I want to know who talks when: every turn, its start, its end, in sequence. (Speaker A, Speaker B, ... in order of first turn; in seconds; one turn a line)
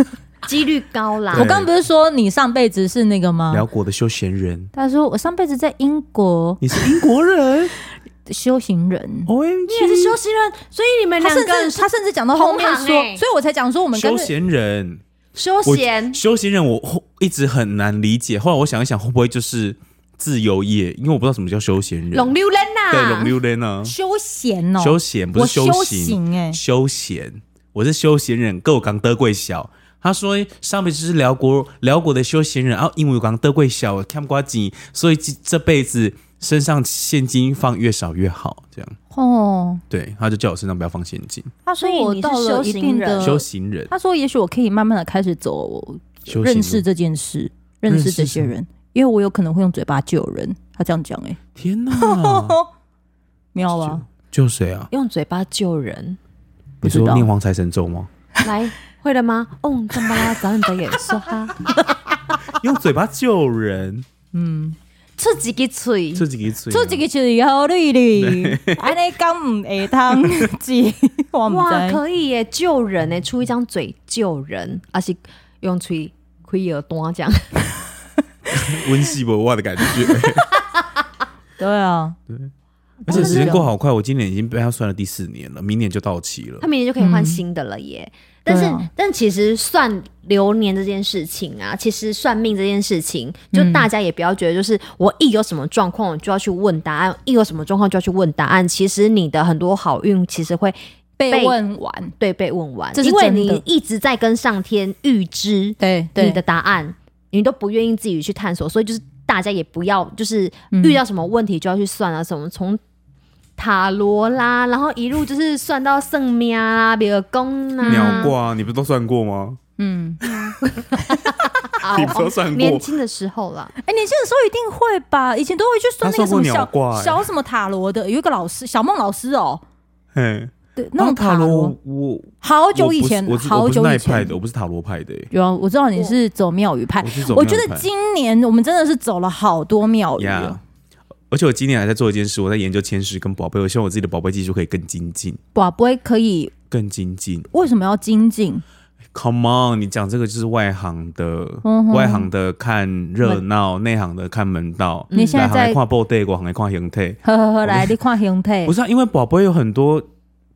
Speaker A: 0.5-1.5
Speaker B: 1.3-1.7
Speaker C: 1.3-3.6
Speaker B: 3.5-4.7
Speaker C: 4.7-6.8
Speaker B: 6.6-7.7
Speaker C: 8.3-9.3
Speaker B: 9.3-10.2
Speaker A: 9.7-13.2
Speaker C: 11.2-14.3
Speaker B: 13.9-15.0
Speaker A: 15.3-16.2
Speaker B: 15.6-22.3
Speaker A: 22.1-23.4
Speaker B: 22.9-23.9
Speaker C: 23.8-26.6
Speaker B: 24.8-39.0
Speaker C: 39.1-39.8
Speaker B: 39.9-41.5
Speaker C: 41.6-51.4
Speaker A: 41.8-43.4
Speaker B: 43.2-43.9
Speaker B: 46.3-46.8
Speaker B: 47.9-48.5
Speaker B: 51.5-52.6
Speaker C: 51.9-52.7
Speaker C: 53.5-54.0
Speaker B: 53.7-54.9
Speaker A: 54.9-56.2
Speaker C: 56.8-57.3
Speaker B: 56.8-58.1
Speaker A: 58.4-61.8
Speaker B: 62.5-64.0
Speaker C: 64.3-64.8
Speaker A: 65.2-66.2
Speaker B: 66.1-67.0
Speaker C: 66.7-72.0
Speaker B: 68.2-68.9
Speaker B: 70.1-70.4
Speaker A: 71.5-77.6
Speaker B: 78.5-80.5
Speaker C: 81.6-82.2
Speaker C: 83.0-83.7
Speaker B: 83.1-86.7
Speaker A: 83.1-83.5
Speaker A: 86.6-100.8
Speaker C: 87.0-87.4
Speaker C: 88.5-88.9
Speaker C: 93.5-93.9
Speaker C: 101.2-102.1
Speaker A: 101.3-101.6
Speaker A: 102.2-112.8
Speaker C: 102.9-103.6
Speaker C: 105.8-106.4
Speaker C: 110.7-111.0
Speaker A: 113.6-118.3
Speaker C: 117.8-118.3
Speaker B: 117.9-119.6
Speaker C: 119.8-120.2
Speaker A: 120.3-123.7
Speaker B: 121.8-122.9
Speaker C: 123.8-129.6
Speaker B: 126.0-127.2
Speaker B: 130.1-135.3
Speaker C: 130.8-131.7
Speaker C: 132.4-134.3
Speaker C: 135.3-140.6
Speaker B: 137.0-137.9
Speaker B: 140.2-140.6
Speaker B: 141.3-145.4
Speaker C: 145.5-146.5
Speaker B: 146.7-147.5
Speaker C: 147.5-148.6
Speaker B: 149.1-158.0
Speaker C: 151.6-152.3
Speaker A: 155.1-155.4
Speaker C: 155.1-155.8
Speaker C: 157.2-158.7
Speaker B: 158.6-160.1